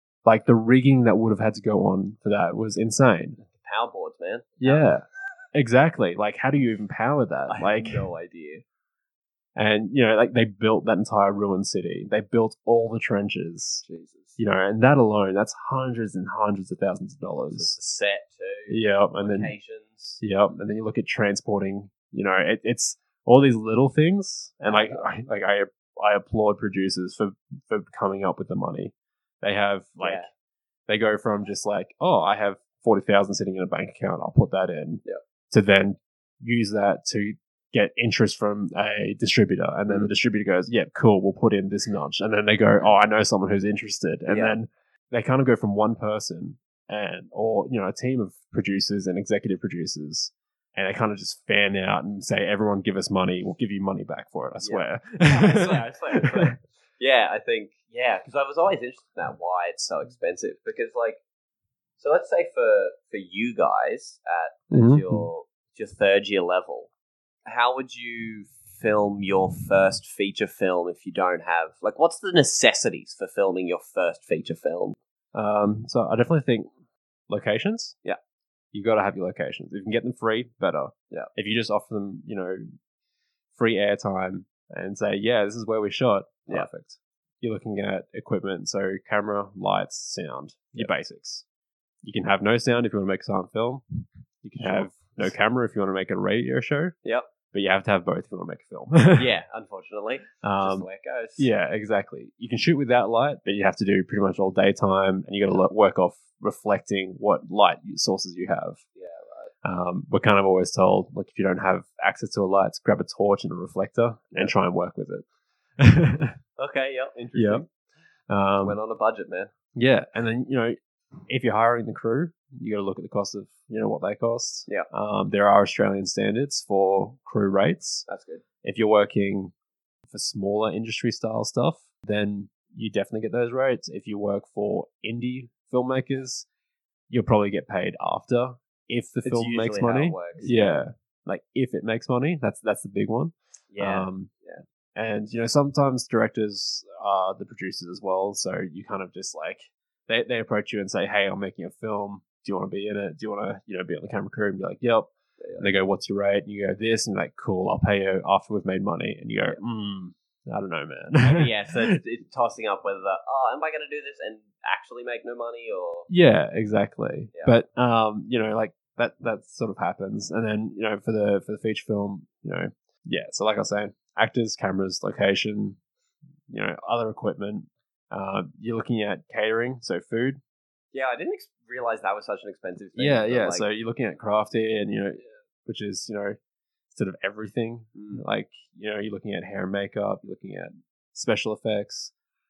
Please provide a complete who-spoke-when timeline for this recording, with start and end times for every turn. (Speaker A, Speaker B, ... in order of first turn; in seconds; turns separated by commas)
Speaker A: 0.2-3.4, Speaker B: 3.5-4.9, Speaker A: 4.6-8.1, Speaker B: 7.5-8.6, Speaker A: 9.6-13.8, Speaker B: 13.8-14.4, Speaker A: 14.4-17.8, Speaker B: 17.5-20.2, Speaker A: 18.7-19.5, Speaker A: 20.2-30.3, Speaker B: 24.6-25.1, Speaker B: 30.0-30.3, Speaker A: 30.9-56.6, Speaker B: 44.3-44.5, Speaker B: 54.6-61.2, Speaker B: 62.0-66.9, Speaker A: 64.7-65.3, Speaker B: 67.5-75.0, Speaker A: 75.3-76.7, Speaker A: 77.3-78.0, Speaker A: 78.7-82.7, Speaker A: 83.5-91.5, Speaker A: 92.0-93.8, Speaker A: 94.4-97.0, Speaker B: 94.6-95.0, Speaker A: 97.5-99.3, Speaker B: 99.1-101.5, Speaker A: 100.4-108.8, Speaker B: 109.0-109.5, Speaker A: 109.6-115.2, Speaker A: 115.8-116.3, Speaker B: 116.6-117.7, Speaker A: 117.3-117.7, Speaker A: 118.3-118.8, Speaker B: 118.6-119.5, Speaker A: 119.8-120.8, Speaker A: 121.3-128.1, Speaker B: 128.1-128.4, Speaker A: 128.6-129.5, Speaker A: 130.1-136.5, Speaker A: 137.1-144.3, Speaker B: 139.2-140.8, Speaker B: 143.7-144.6, Speaker A: 144.9-162.0, Speaker B: 155.4-155.7, Speaker B: 161.2-166.1, Speaker A: 166.1-175.8, Speaker A: 176.5-180.4, Speaker B: 180.9-183.7, Speaker A: 183.0-186.4, Speaker A: 186.9-192.1, Speaker B: 187.9-188.2